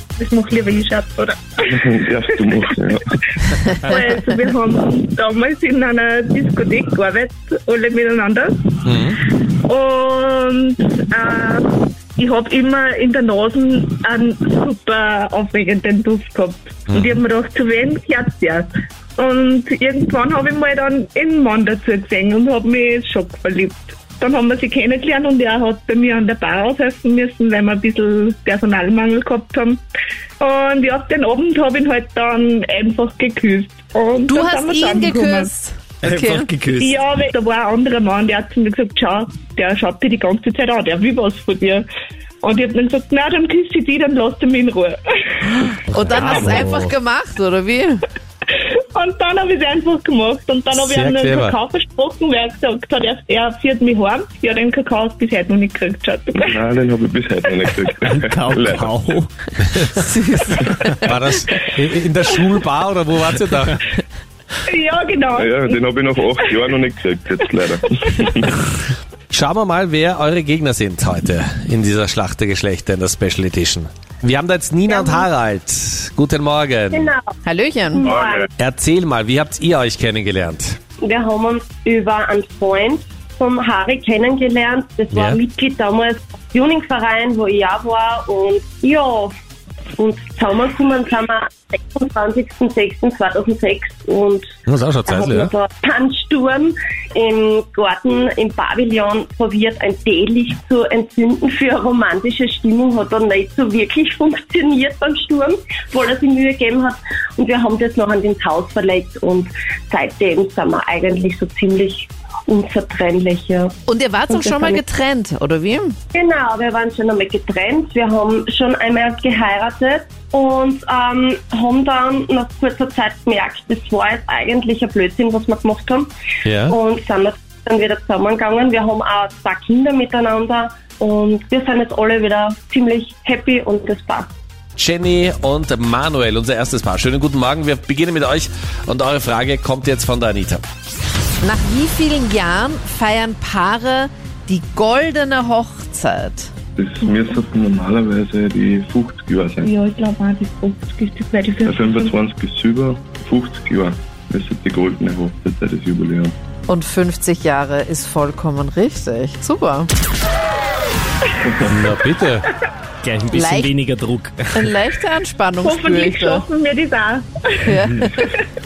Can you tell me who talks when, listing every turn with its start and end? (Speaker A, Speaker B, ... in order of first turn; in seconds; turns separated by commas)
Speaker A: 0.2-1.8, Speaker B: 1.8-3.0, Speaker A: 3.8-29.8, Speaker C: 8.8-9.2, Speaker C: 16.9-17.1, Speaker A: 30.4-35.5, Speaker D: 34.3-36.5, Speaker E: 36.0-37.0, Speaker A: 36.7-41.9, Speaker A: 42.4-45.3, Speaker D: 45.8-48.0, Speaker E: 45.9-46.9, Speaker A: 48.9-56.5, Speaker C: 50.7-51.5, Speaker B: 56.5-59.0, Speaker E: 58.1-60.5, Speaker C: 61.0-63.8, Speaker A: 64.7-66.5, Speaker B: 65.3-68.7, Speaker C: 69.3-77.1, Speaker F: 74.9-75.3, Speaker F: 76.9-77.2, Speaker D: 77.4-78.1, Speaker F: 77.9-78.5, Speaker C: 78.6-80.8, Speaker F: 81.0-89.3, Speaker C: 85.1-85.4, Speaker F: 90.0-94.5, Speaker C: 94.7-95.5, Speaker F: 95.1-113.7, Speaker D: 113.9-115.9, Speaker F: 114.3-114.8, Speaker F: 116.1-126.1, Speaker C: 126.4-126.8, Speaker F: 126.7-134.3, Speaker C: 134.8-140.6, Speaker D: 141.4-146.5, Speaker B: 146.8-149.7, Speaker A: 149.6-152.2, Speaker B: 151.6-156.3, Speaker D: 156.7-159.9, Speaker C: 161.7-162.5, Speaker E: 163.0-164.7, Speaker D: 163.3-163.7, Speaker D: 164.5-166.4, Speaker A: 165.6-167.7, Speaker D: 167.7-168.3, Speaker E: 167.7-168.1